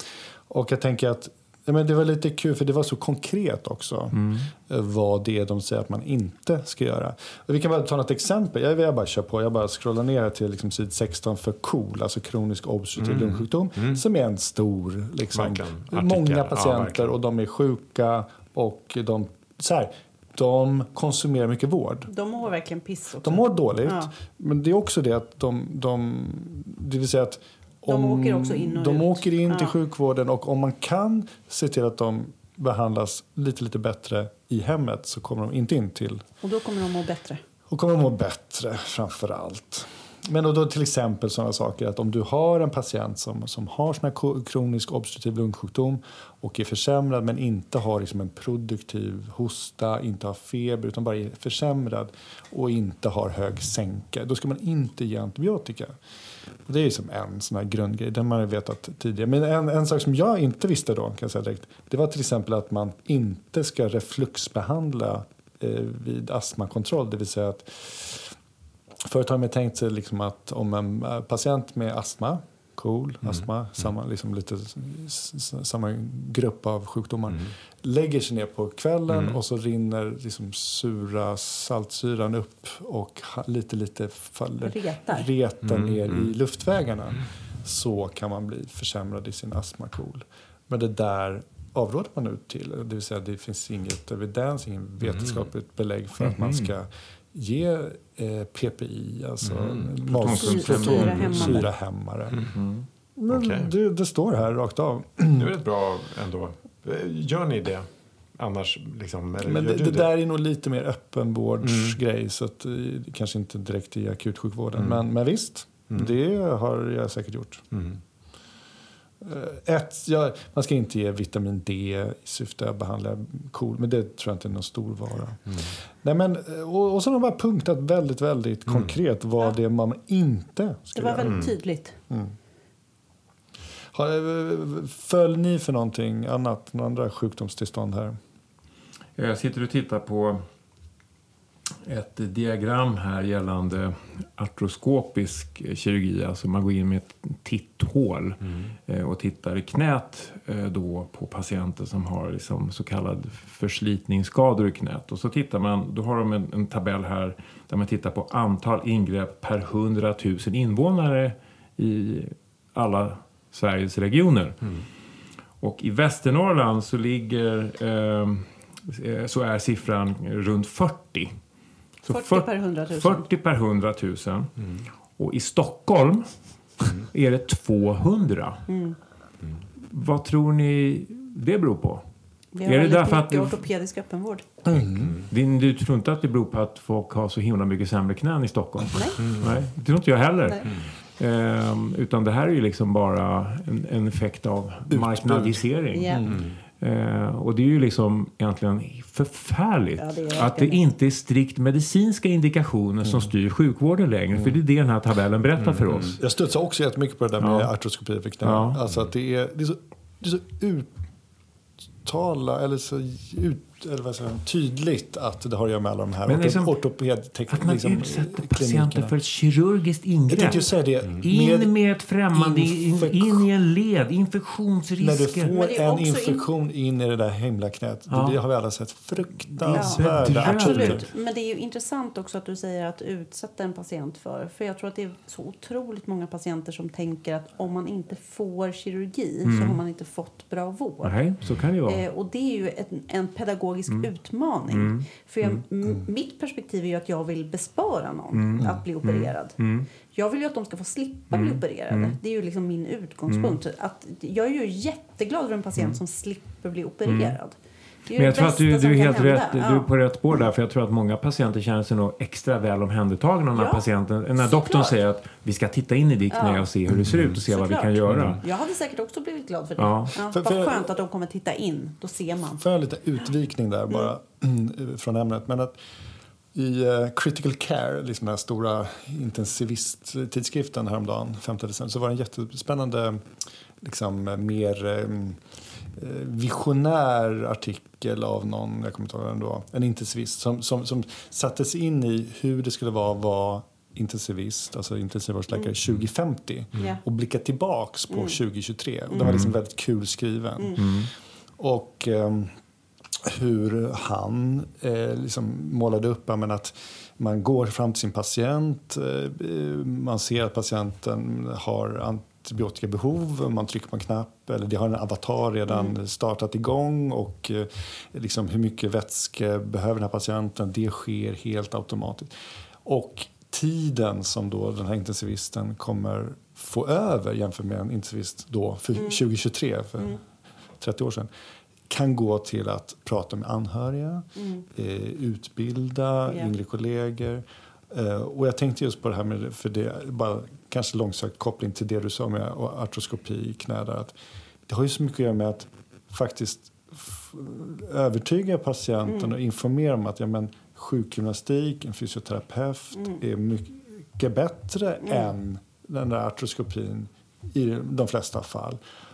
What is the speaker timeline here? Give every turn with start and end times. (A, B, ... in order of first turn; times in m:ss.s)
0:00.5-0:22.1 A
0:04.1-0:04.5 B
0:13.0-0:14.0 C
0:15.3-0:17.1 C
0:22.1-0:24.1 D
0:23.2-0:36.2 A
0:27.9-0:29.8 D
0:36.4-0:37.4 D
0:37.7-0:56.0 A
0:56.6-1:08.4 A
1:09.0-1:42.4 A
1:19.1-1:19.4 C
1:24.6-1:25.3 D
1:25.6-1:26.3 C
1:35.0-1:35.4 C
1:36.2-1:36.7 B
1:39.4-1:39.9 C
1:40.1-1:41.6 B
1:40.3-1:41.7 D
1:42.5-1:42.9 B
1:43.2-1:45.5 A
1:43.3-1:43.7 C
1:45.4-1:50.1 C
1:49.4-1:57.6 A
1:51.6-1:52.0 C
1:57.7-1:58.0 C
1:59.2-2:11.5 A
2:08.7-2:09.0 C
2:11.0-2:12.0 D
2:11.2-2:11.5 C
2:13.9-2:18.2 A
2:19.2-2:20.4 B
2:21.8-2:44.8 B
2:45.6-2:51.3 B
2:52.0-2:54.5 B
2:52.1-2:53.2 D
2:55.2-2:56.3 B
2:56.8-2:58.6 B
2:58.7-2:59.0 D
2:59.8-3:02.0 B
3:02.5-3:04.4 D
3:02.6-3:03.7 B
3:04.6-3:05.1 A
3:04.9-3:05.3 C
3:05.3-3:26.2 B
3:08.9-3:09.2 D
3:09.2-3:09.6 C
3:14.9-3:16.4 A
3:15.9-3:16.4 D
3:16.3-3:16.5 C
3:20.0-3:20.8 D
3:23.0-3:23.3 A
3:24.3-3:24.6 A
3:25.6-3:26.1 C
3:26.2-3:30.9 A
3:27.4-3:27.7 B
3:28.4-3:28.8 B
3:32.0-3:39.1 A
3:36.2-3:36.8 B
3:37.5-3:45.5 B
3:40.3-3:41.7 A
3:42.3-3:43.5 A
3:45.0-3:51.0 A
3:45.5-3:46.5 D
3:48.1-3:48.4 B
3:49.6-3:51.0 B
3:49.7-4:01.2 D
3:59.4-3:59.8 B
4:01.0-4:02.0 B
4:01.8-4:19.9 D
4:04.7-4:05.6 B
4:08.3-4:09.9 B
4:11.3-4:12.2 B
4:13.3-4:13.6 B
4:17.1-4:17.4 B
4:18.2-4:28.4 B
4:23.6-4:23.8 D
4:24.4-4:24.9 D
4:26.3-4:26.7 D
4:26.9-4:27.4 C
4:27.5-4:32.6 D
4:28.1-4:28.4 C
4:29.8-4:30.2 B
4:30.3-4:30.9 A
4:32.6-4:35.8 A
4:36.5-4:43.2 A
4:43.8-4:45.4 A
4:46.0-5:01.1 A
4:58.1-4:58.4 D
4:59.1-4:59.4 D
4:59.2-4:59.5 B
5:00.8-5:01.1 B
5:01.6-5:02.5 A
5:03.2-5:22.3 A
5:15.7-5:16.0 D
5:22.8-5:30.2 A
5:30.8-5:31.3 A
5:31.9-5:44.1 A
5:34.4-5:34.6 D
5:44.7-5:58.8 A
5:49.1-5:49.3 D